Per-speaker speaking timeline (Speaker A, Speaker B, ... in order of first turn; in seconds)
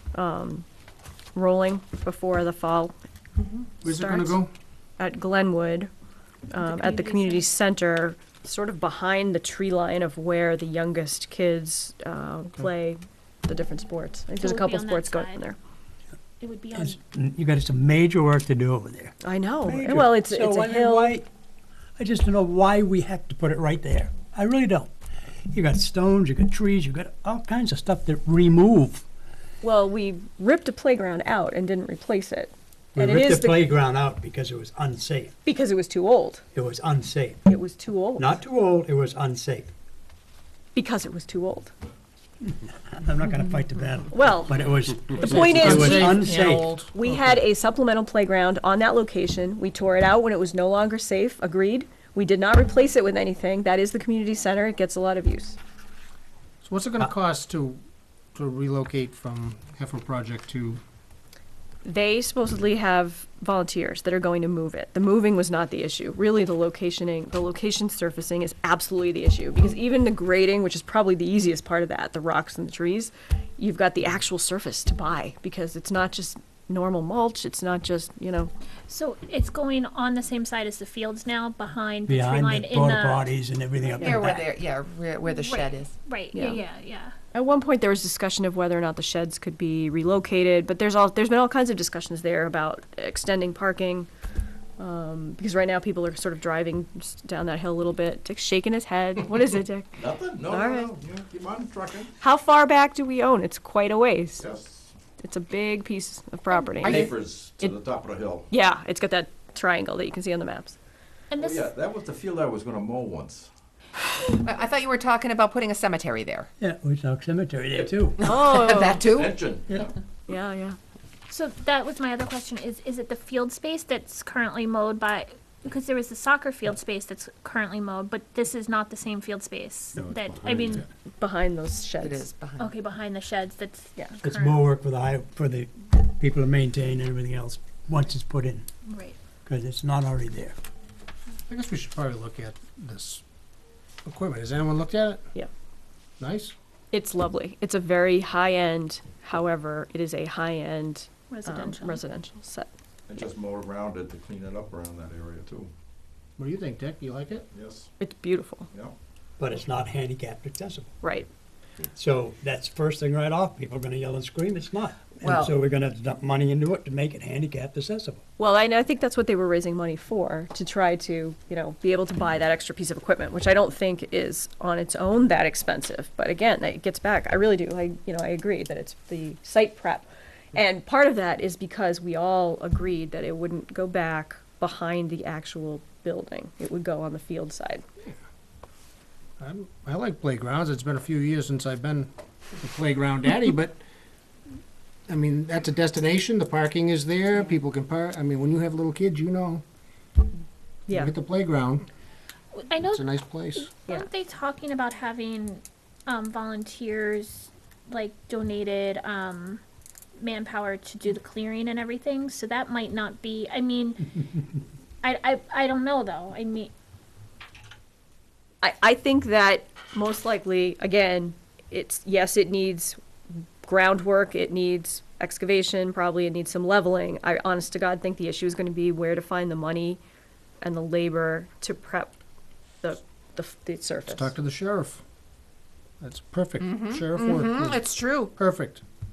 Speaker A: 0.1-0.7, 1.3-2.9, 3.8-4.5, 5.0-5.9, 6.5-15.6, 19.2-21.2, 29.6-33.7, 35.4-36.4, 37.5-38.3, 40.7-41.7, 44.1-46.4, 46.9-55.6, 61.8-78.5, 86.3-86.6, 87.3-94.1, 94.8-100.9, 102.2-104.4, 105.2-107.8, 108.5-110.8, 118.2-119.0, 120.3-120.8, 131.2-132.2, 146.9-152.7, 158.0-158.7, 161.0-161.3, 168.4-187.8, 200.9-201.1, 218.6-223.0, 223.6-230.0, 230.6-232.2, 232.8-234.3
Speaker B: 3.4-3.7, 83.9-86.0, 106.8-107.1, 114.3-116.5, 118.2-119.4, 132.0-132.7, 165.2-165.5, 236.6-238.3
Speaker C: 3.8-4.5, 45.1-46.9, 56.6-57.8, 58.3-60.8, 130.0-130.8, 141.5-143.2, 144.0-145.2, 146.2-146.5, 156.4-157.5, 189.4-193.8, 195.1-199.6, 200.9-201.9, 202.8-203.7, 234.1-235.0, 236.0-238.8
Speaker D: 6.5-7.5, 14.3-15.5, 16.4-17.0, 78.9-83.3, 85.2-87.1, 111.3-111.6, 121.3-130.8, 132.6-134.6, 138.8-139.2, 151.3-152.0, 202.6-209.6, 210.2-214.1, 215.0-216.7
Speaker E: 16.7-21.3, 22.0-24.9, 25.5-29.0, 32.9-35.3, 36.5-37.4, 38.2-39.7, 42.5-46.7, 82.1-84.5, 116.6-118.3, 130.5-130.7, 134.2-138.7, 139.5-140.6, 159.4-161.0, 161.9-168.2
Speaker F: 100.0-102.1, 104.4-104.9, 106.8-108.5, 111.3-113.5, 119.1-119.9, 153.1-155.7, 157.5-157.9, 158.7-158.9